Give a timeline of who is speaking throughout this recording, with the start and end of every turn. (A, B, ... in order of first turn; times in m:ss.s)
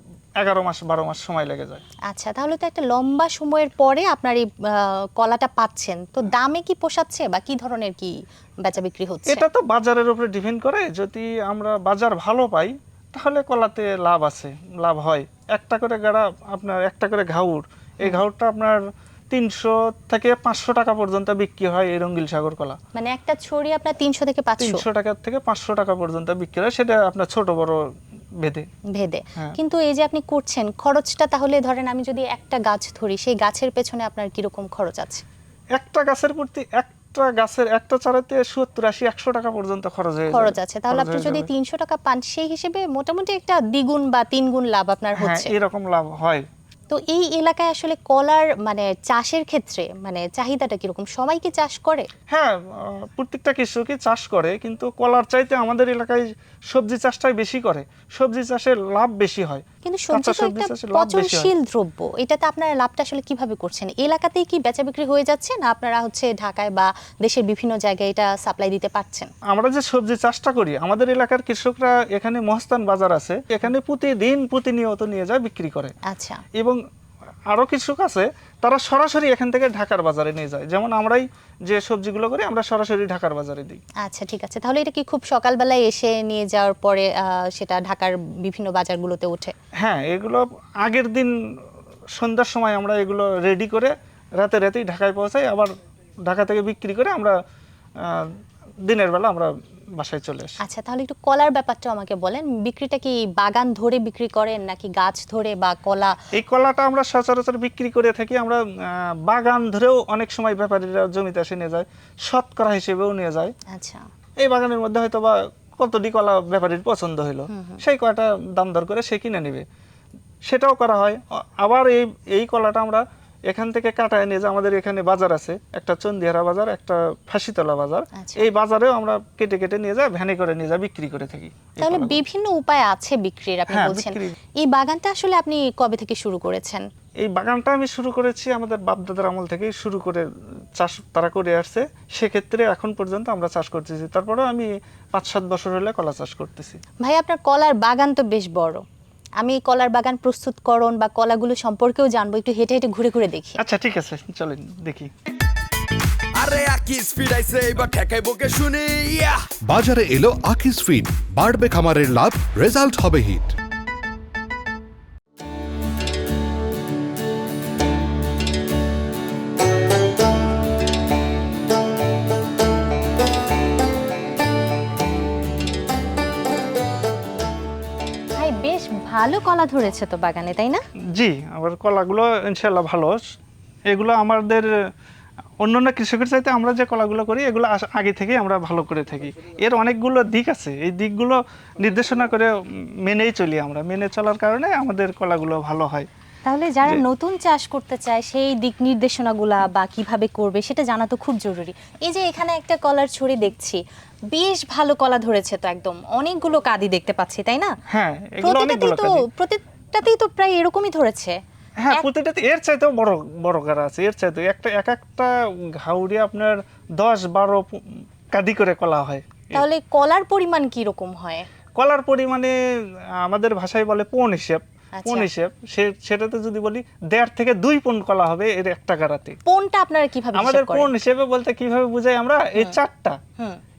0:00.4-0:01.8 A
0:02.1-0:09.4 B
0:09.3-0:22.8 A
0:22.9-0:24.8 B
0:24.6-0:27.8 A
0:28.9-0:35.2 B
0:35.7-0:41.5 A
0:40.3-0:45.5 B
0:45.2-0:46.4 A
0:46.9-0:52.1 B
0:52.3-1:01.5 A
0:59.8-1:09.3 B
1:09.5-1:15.9 A
1:16.1-1:16.4 B
1:17.5-1:23.8 A
1:24.0-1:29.5 B
1:29.8-1:31.3 A
1:32.1-1:35.7 A
1:36.2-1:37.3 A
1:38.0-1:38.3 A
1:38.8-1:40.5 A
1:40.6-1:46.1 B
1:46.4-1:53.5 A
1:53.7-1:54.0 B
1:54.4-1:59.6 A
1:57.5-1:57.8 B
2:00.4-2:12.2 A
2:08.2-2:08.5 B
2:11.8-2:16.8 B
2:13.7-2:14.3 A
2:17.2-2:20.2 A
2:20.8-2:26.8 A
2:27.0-2:28.8 B
2:29.4-2:33.6 B
2:33.6-2:35.1 A
2:36.3-2:39.5 C
2:39.6-2:43.5 D
2:58.4-3:00.8 B
3:01.1-3:03.2 A
3:03.9-3:04.7 A
3:05.6-3:12.5 A
3:13.0-3:16.1 A
3:16.4-3:27.7 B
3:27.9-3:29.2 A
3:28.4-3:31.4 B
3:31.8-3:37.6 A
3:38.3-3:39.6 A
3:39.5-3:41.4 B
3:41.8-3:42.5 A
3:43.2-3:49.4 A
3:45.0-3:45.3 B
3:49.5-3:50.9 B
3:50.3-3:53.2 A